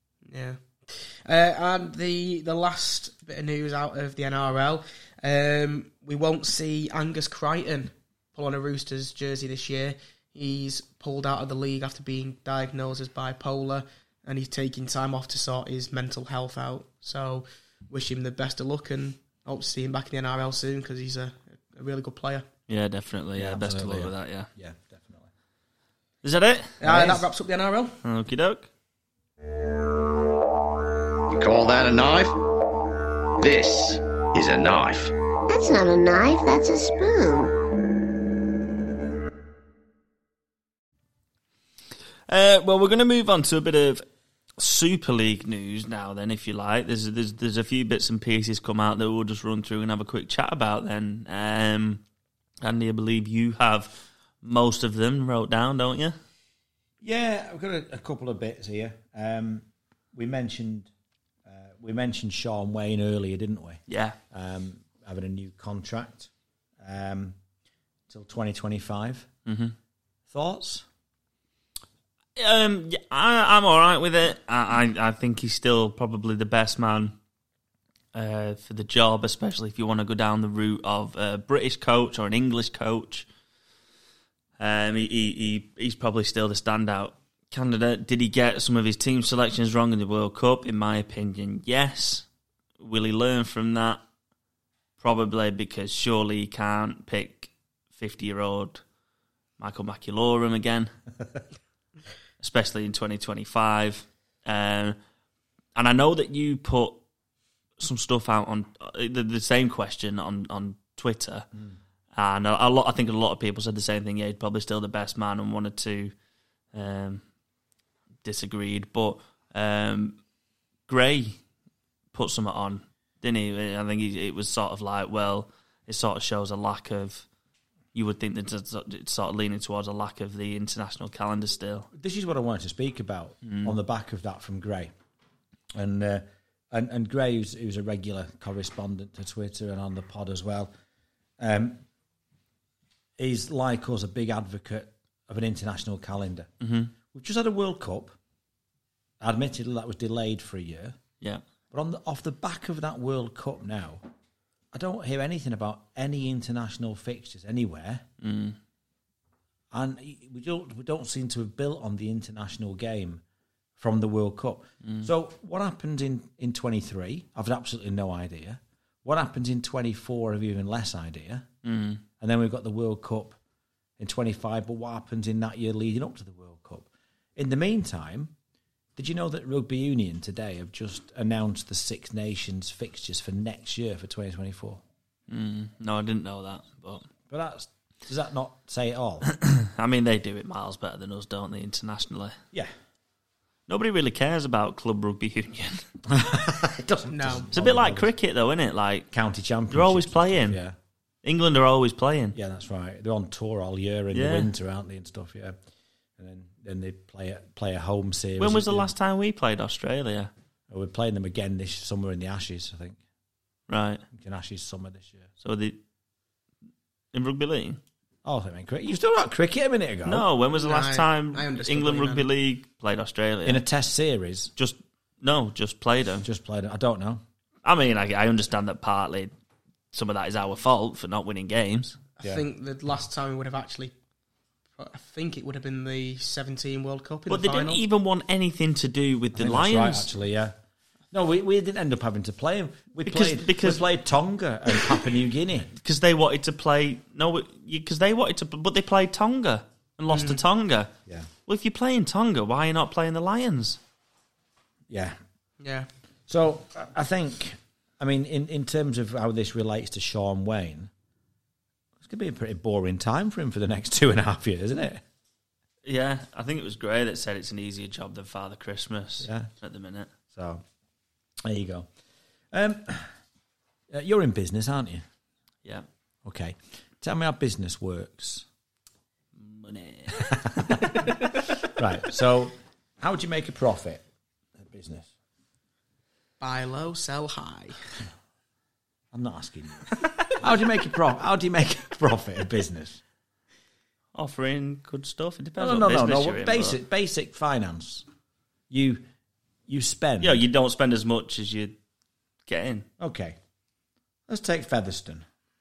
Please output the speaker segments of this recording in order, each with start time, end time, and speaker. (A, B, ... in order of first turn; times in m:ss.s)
0:00.3-0:22.4 A
0:22.7-0:24.5 B
0:23.4-0:25.3 C
0:26.2-0:27.1 B
0:26.8-0:28.0 A
0:28.0-0:28.7 B
0:31.3-0:32.3 D
0:33.4-0:35.1 D
0:35.5-0:37.5 E
0:42.3-0:44.0 B
0:44.6-0:52.0 B
0:52.6-0:56.1 B
0:57.0-1:00.9 C
1:01.4-1:07.4 C
1:03.9-1:04.2 B
1:08.1-1:09.3 C
1:09.4-1:09.7 B
1:10.3-1:10.8 C
1:12.4-1:17.1 B
1:18.1-1:23.2 B
1:24.6-1:32.2 B
1:32.8-1:34.0 B
1:35.0-1:38.8 B
1:39.6-1:40.9 B
1:42.4-1:45.0 B
1:45.7-1:47.0 B
1:47.8-1:51.4 B
1:52.2-1:56.1 B
1:56.7-1:57.2 B
1:58.2-2:00.2 B
2:00.9-2:01.4 B
2:02.1-2:07.2 B
2:07.9-2:11.9 B
2:11.9-2:14.9 C
2:13.4-2:13.7 B
2:15.7-2:20.7 C
2:21.4-2:21.8 C
2:23.2-2:26.5 C
2:26.6-2:26.9 B
2:27.1-2:28.2 C
2:29.2-2:31.0 C
2:31.7-2:34.0 C
2:34.7-2:38.0 C
2:38.2-2:38.6 B
2:39.7-2:43.2 C
2:43.8-2:51.5 C
2:51.6-2:52.0 B
2:52.2-2:53.4 C
2:54.0-2:58.3 C
2:59.0-3:04.8 C
3:05.3-3:07.0 B
3:07.3-3:09.3 C
3:09.3-3:12.4 B
3:13.7-3:15.8 B
3:16.1-3:18.1 C
3:17.1-3:17.5 A
3:17.5-3:19.1 B
3:19.1-3:20.8 C
3:19.7-3:20.6 B
3:21.2-3:22.4 B
3:22.3-3:25.6 C
3:24.1-3:24.5 B
3:26.2-3:28.9 C
3:28.4-3:30.3 B
3:30.7-3:33.0 C
3:33.7-3:34.0 B
3:34.1-3:35.3 C
3:35.4-3:35.8 B
3:37.1-3:37.8 B
3:38.2-3:40.3 C
3:40.0-3:43.6 B
3:40.5-3:42.2 A
3:43.4-3:44.5 C
3:44.6-3:46.2 B
3:46.2-3:47.2 C
3:47.6-3:49.3 B
3:49.9-3:52.0 B
3:52.2-3:53.9 A
3:54.8-3:57.8 A
3:57.3-4:00.1 B
3:59.3-4:00.5 C
4:01.1-4:05.7 C
4:03.0-4:03.8 B
4:05.8-4:10.9 B
4:10.1-4:10.4 A
4:11.4-4:13.8 B
4:14.9-4:15.2 C
4:15.6-4:15.9 A
4:16.3-4:20.9 C
4:22.0-4:25.0 C
4:25.8-4:30.1 B
4:29.2-4:29.5 C
4:30.3-4:30.6 C
4:31.4-4:31.9 C
4:32.5-4:33.1 C
4:33.9-4:35.0 C
4:36.2-4:38.4 C
4:39.4-4:40.7 B
4:40.2-4:41.1 C
4:41.6-4:44.0 C
4:44.6-4:45.1 C
4:46.4-4:47.8 A
4:49.1-4:53.0 C
4:54.1-4:56.8 B
4:55.6-4:58.0 C
4:58.7-4:59.0 C
4:59.7-5:00.4 C
5:00.2-5:01.7 B
5:02.5-5:02.8 B
5:03.0-5:03.4 C
5:04.3-5:05.2 C